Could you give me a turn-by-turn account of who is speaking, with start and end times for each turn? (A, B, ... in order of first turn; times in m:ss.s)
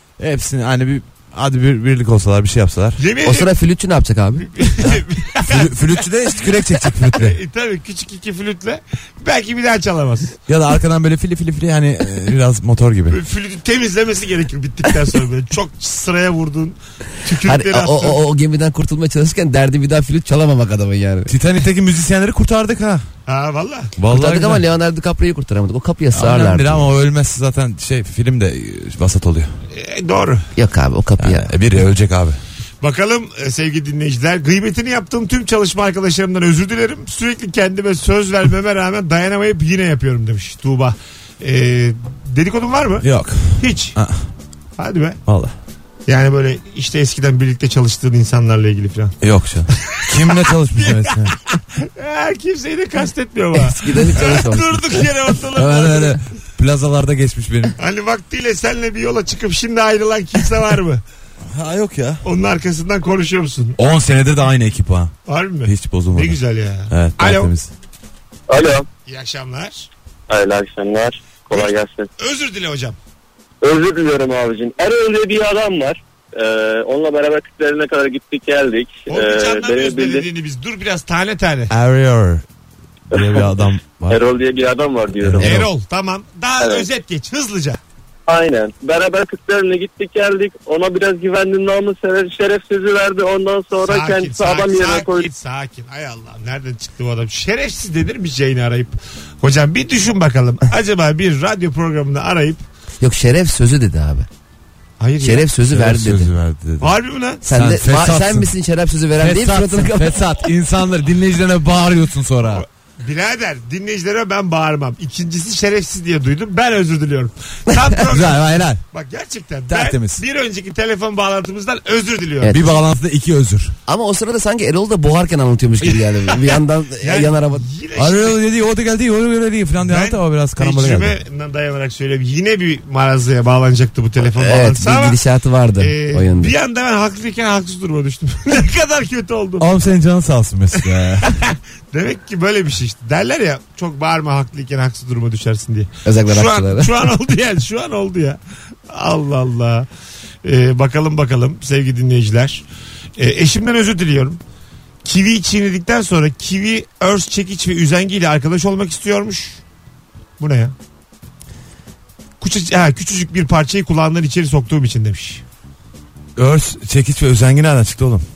0:00.2-0:03.0 A
0:03.0-0:03.5 B
0:03.2-0:04.5 C
0:04.5-0:05.8 B
0:04.8-0:07.4 A
0:07.1-0:10.4 B
0:10.5-0:13.2 A
0:13.1-0:18.2 B
0:17.4-0:21.3 C
0:21.3-0:23.1 A
0:23.3-0:23.9 B
0:24.0-0:24.6 A
0:24.1-0:26.9 C
0:26.1-0:29.5 A
0:29.7-0:30.5 B
0:30.6-0:31.5 C
0:31.2-0:32.4 A
0:32.8-0:44.0 B
0:43.0-0:44.3 A
0:44.8-0:45.2 B
0:45.3-0:45.5 A
0:46.1-0:49.2 B
0:49.2-0:51.4 A
0:49.9-0:56.2 B
0:53.6-0:55.1 C
0:55.5-0:57.8 A
0:57.8-1:01.0 B
1:01.4-1:02.2 A
1:02.2-1:03.8 B
1:03.8-1:05.1 A
1:05.3-1:07.5 B
1:05.6-1:07.7 A
1:08.5-1:08.9 D
1:09.0-1:09.9 B
1:10.3-1:12.1 D
1:11.5-1:13.0 B
1:13.6-1:20.3 D
1:19.1-1:21.7 B
1:21.7-1:22.4 A
1:23.1-1:24.2 A
1:23.1-1:23.5 D
1:24.1-1:25.5 D
1:25.2-1:25.7 A
1:25.4-1:27.8 B
1:26.6-1:26.9 D
1:28.3-1:35.3 D
1:33.8-1:42.6 B
1:43.0-1:44.3 C
1:45.0-1:45.5 B
1:45.2-1:46.3 C
1:45.7-1:48.5 A
1:46.8-1:47.4 B
1:47.4-1:50.3 C
1:49.2-1:52.6 A
1:52.5-2:02.6 B
1:58.1-1:58.8 A
1:59.7-2:00.2 A
2:02.5-2:03.8 A
2:03.9-2:07.6 C
2:07.0-2:08.4 B
2:08.0-2:11.2 A
2:09.8-2:15.2 B
2:14.3-2:16.5 C
2:15.8-2:19.7 B
2:19.6-2:21.4 A
2:21.2-2:29.9 B
2:26.0-2:26.9 C
2:30.4-2:32.6 B
2:33.2-2:34.4 B
2:35.0-2:39.6 B
2:40.4-2:40.7 B
2:42.4-2:45.4 B
2:46.4-2:48.3 A